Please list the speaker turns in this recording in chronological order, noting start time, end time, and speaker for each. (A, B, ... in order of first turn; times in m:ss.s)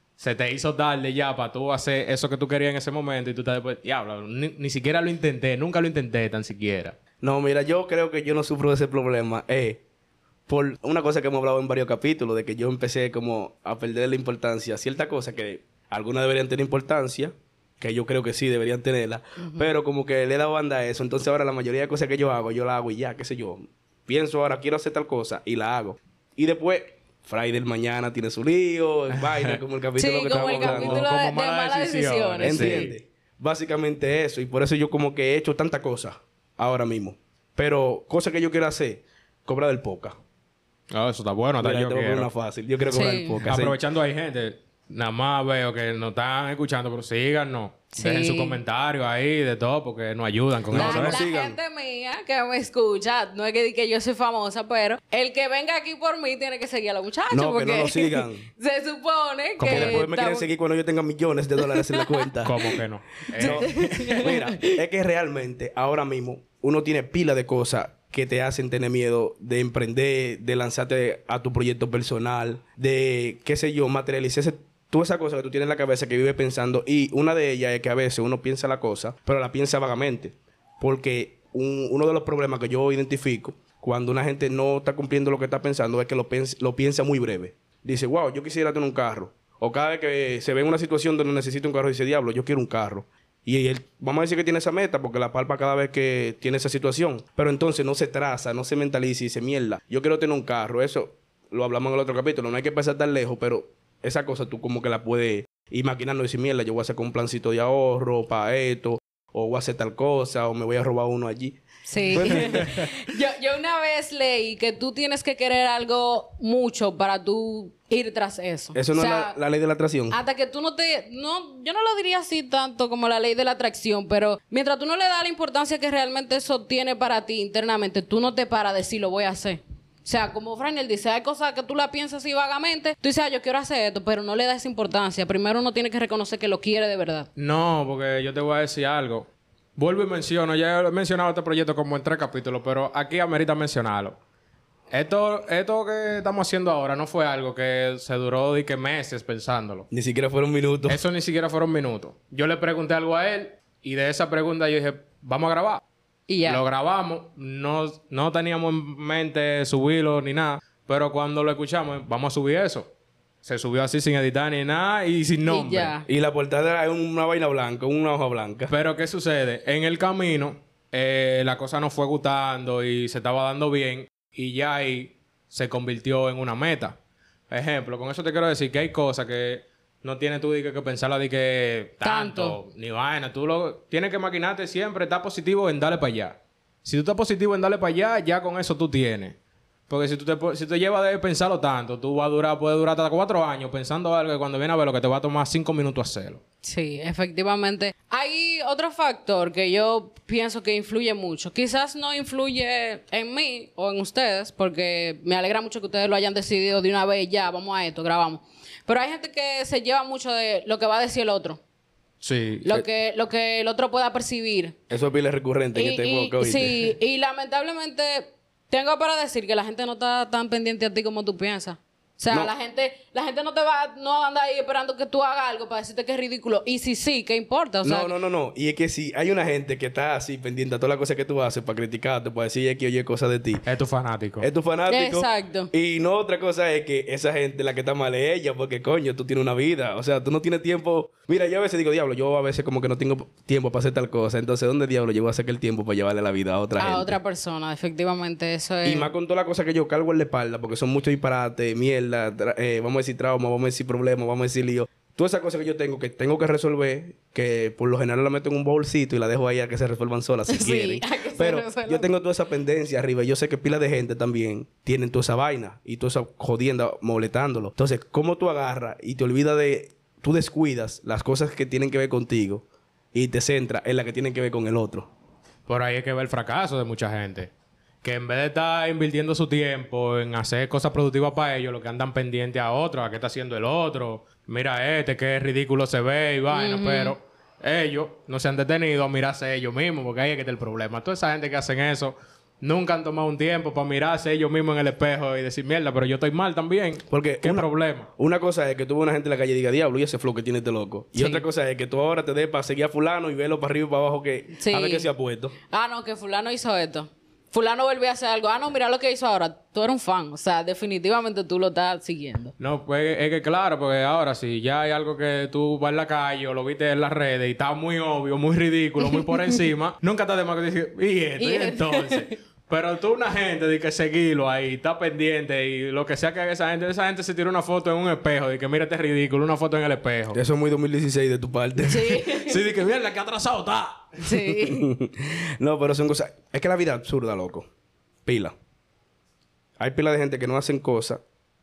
0:00.2-0:07.0 A
0:07.2-0:09.8 B
0:10.5-0:31.1 B
0:29.1-0:29.6 A
0:30.0-0:32.9 C
0:30.6-0:32.9 A
0:32.4-0:40.2 B
0:40.9-0:42.3 A
0:41.6-0:43.8 B
0:42.9-0:43.4 C
0:43.5-0:51.2 A
0:48.0-0:48.6 C
0:50.7-0:51.6 B
0:50.7-1:00.5 C
0:57.3-0:58.5 B
0:59.6-1:00.1 A
0:59.6-1:02.6 B
1:01.6-1:02.3 C
1:02.4-1:04.3 A
1:03.3-1:04.8 C
1:03.4-1:52.9 B
1:51.9-1:59.4 C
1:58.8-2:00.2 B
2:00.1-2:17.3 C
2:17.4-2:24.2 A
2:24.9-2:29.9 A
2:29.9-2:31.0 B
2:30.9-2:35.8 A
2:36.3-2:36.6 C
2:36.5-2:42.9 A
2:43.4-2:46.0 A
2:45.5-2:46.1 C
2:46.1-2:48.7 B
2:48.7-2:57.0 A
2:57.5-3:09.3 A
3:02.0-3:02.6 C
3:09.9-3:16.4 A
3:16.6-3:31.6 C
3:32.2-3:32.7 A
3:32.6-3:34.8 C
3:34.9-3:36.9 B
3:35.8-3:48.1 C
3:47.8-3:53.6 B
3:53.7-3:54.5 A
3:54.4-4:07.2 B
3:54.9-3:55.7 C
4:06.8-4:09.1 C
4:08.8-4:35.1 B
4:20.5-4:22.1 C
4:35.7-4:37.5 A
4:38.0-4:58.1 A
4:46.5-4:47.2 C
4:57.1-5:05.5 B
5:01.2-5:01.4 C
5:04.6-5:05.1 C
5:05.7-5:12.5 C
5:12.6-5:30.4 A
5:19.0-5:19.6 C
5:21.4-5:22.3 C
5:30.3-5:32.2 B
5:31.8-5:32.6 C
5:32.2-5:34.2 A
5:34.2-5:34.8 C
5:34.6-5:37.7 B
5:38.3-5:38.6 B
5:39.8-5:41.2 B